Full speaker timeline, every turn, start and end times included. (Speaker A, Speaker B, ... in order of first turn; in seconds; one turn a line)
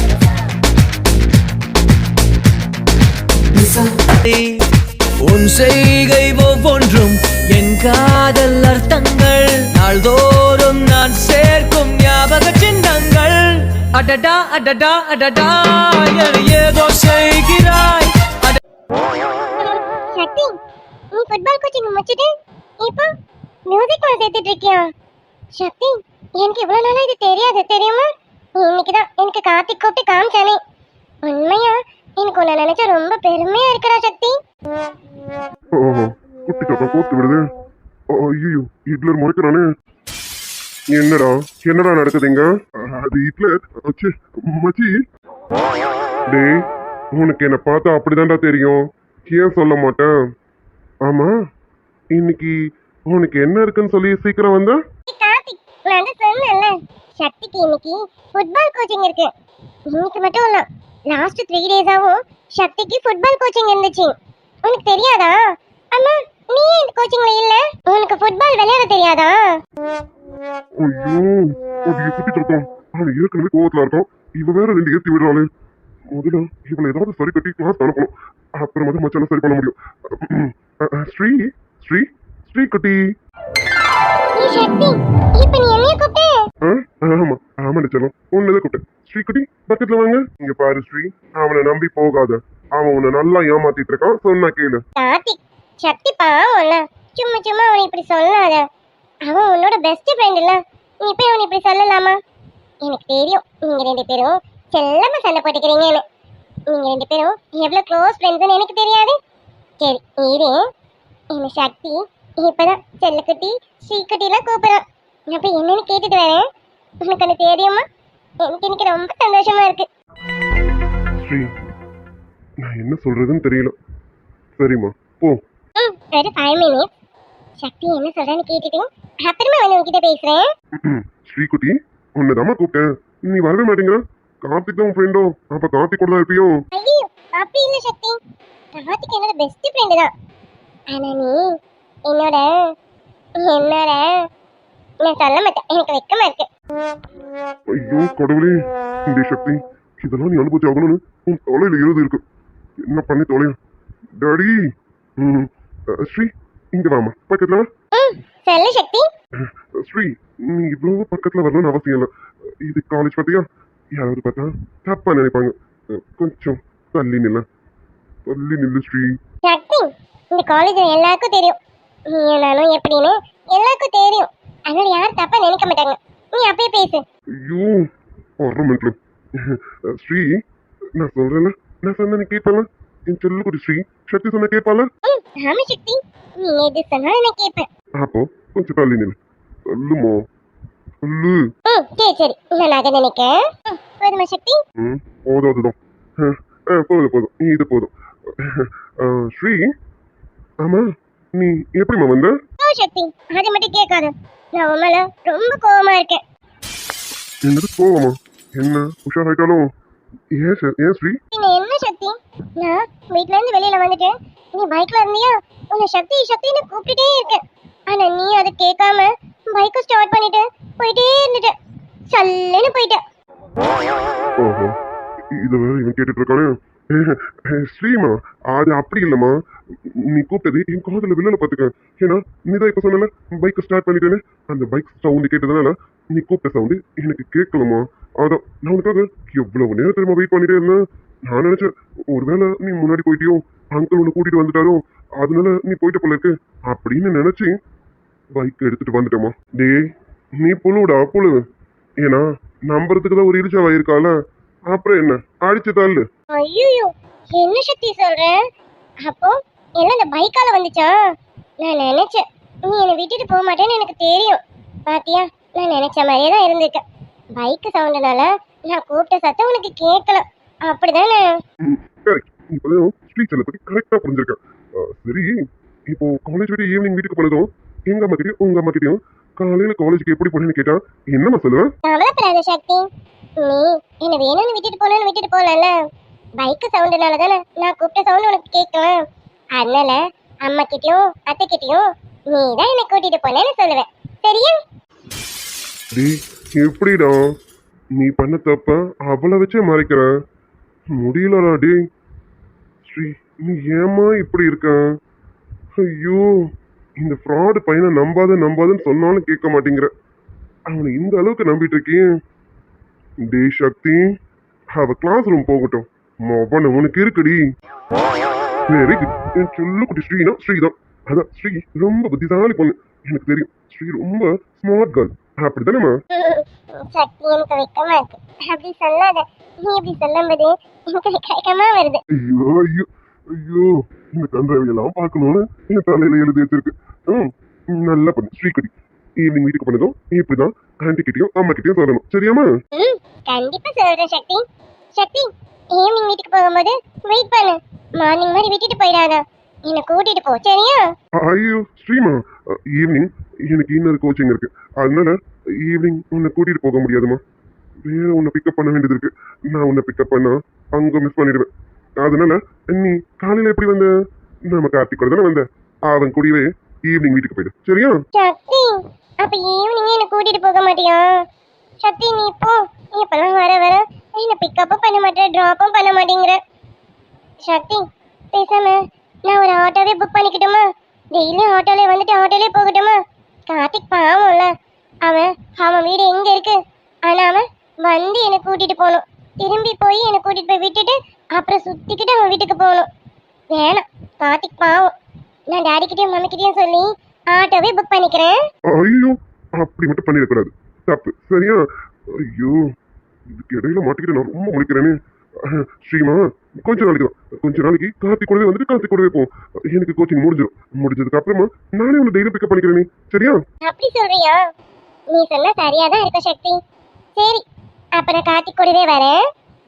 Speaker A: 3.5-4.6
Speaker A: 5.2-18.6
Speaker B: 19.6-20.6
Speaker B: 21.1-22.3
Speaker B: 22.8-23.1
Speaker B: 23.7-24.9
Speaker B: 25.6-28.1
Speaker B: 28.6-30.6
Speaker B: 31.2-34.4
Speaker C: 35.8-37.5
Speaker C: 38.1-39.7
Speaker C: 40.9-45.0
Speaker C: 46.3-46.6
Speaker C: 47.1-50.1
Speaker C: 51.0-51.3
Speaker C: 52.1-52.5
Speaker C: 53.1-54.8
Speaker B: 55.1-59.3
Speaker B: 59.9-64.1
Speaker B: 64.7-65.4
Speaker B: 65.9-69.4
Speaker C: 70.8-75.5
Speaker C: 76.1-83.0
Speaker B: 84.4-86.3
Speaker C: 86.7-94.8
Speaker B: 95.0-98.6
Speaker B: 99.3-102.2
Speaker B: 102.8-106.0
Speaker B: 106.7-109.2
Speaker B: 109.8-110.6
Speaker B: 111.3-116.4
Speaker B: 117.0-117.8
Speaker B: 118.4-119.9
Speaker C: 121.2-121.5
Speaker C: 122.6-123.8
Speaker C: 124.6-125.4
Speaker B: 125.8-126.9
Speaker B: 127.6-130.4
Speaker C: 130.8-136.6
Speaker B: 136.8-138.2
Speaker B: 138.8-140.1
Speaker B: 140.9-141.6
Speaker B: 142.1-142.5
Speaker B: 143.4-144.2
Speaker B: 145.0-146.5
Speaker C: 147.7-148.6
Speaker C: 149.1-152.2
Speaker C: 152.9-153.6
Speaker C: 154.2-154.6
Speaker C: 155.2-157.7
Speaker B: 157.9-159.1
Speaker C: 159.5-162.1
Speaker C: 162.6-167.4
Speaker C: 168.3-169.1
Speaker B: 169.4-171.6
Speaker B: 172.1-177.0
Speaker C: 177.4-177.8
Speaker C: 178.4-180.3
Speaker C: 181.0-184.9
Speaker B: 185.1-187.7
Speaker C: 188.0-189.2
Speaker C: 189.7-190.2
Speaker C: 191.0-191.4
Speaker B: 191.7-194.6
Speaker C: 194.8-199.7
Speaker C: 200.6-202.3
Speaker B: 202.6-206.2
Speaker C: 207.4-209.7
Speaker C: 210.3-211.2
Speaker B: 211.3-221.5
Speaker B: 222.1-223.0
Speaker C: 224.4-224.7
Speaker C: 225.3-247.6
Speaker C: 248.3-249.8
Speaker C: 250.4-251.4
Speaker C: 252.0-254.1
Speaker C: 254.7-256.1
Speaker B: 256.4-258.4
Speaker B: 259.0-260.9
Speaker B: 261.6-266.8
Speaker B: 267.4-271.3
Speaker C: 271.6-275.4
Speaker C: 275.9-281.7
Speaker B: 281.9-282.9
Speaker B: 283.4-285.8
Speaker B: 286.4-289.0
Speaker B: 289.6-294.6
Speaker C: 295.9-297.2
Speaker C: 297.9-300.1
Speaker C: 300.9-301.8
Speaker C: 302.8-304.8
Speaker C: 305.8-306.5
Speaker C: 307.0-309.9
Speaker C: 310.7-312.1
Speaker C: 313.2-314.1
Speaker C: 314.7-317.4
Speaker C: 318.7-325.9
Speaker B: 326.1-332.0
Speaker C: 332.1-342.5
Speaker B: 342.8-344.4
Speaker B: 344.9-350.9
Speaker C: 351.2-357.2
Speaker C: 357.9-361.5
Speaker C: 362.0-363.9
Speaker C: 364.5-368.0
Speaker B: 368.1-371.1
Speaker B: 371.8-376.4
Speaker B: 377.4-380.6
Speaker B: 381.1-382.9
Speaker B: 383.5-384.5
Speaker B: 385.0-392.9
Speaker B: 393.5-394.9
Speaker B: 395.5-398.4
Speaker C: 398.7-402.6
Speaker C: 403.3-413.4
Speaker B: 413.6-414.4
Speaker B: 415.1-416.6
Speaker B: 417.2-417.4
Speaker B: 418.0-419.2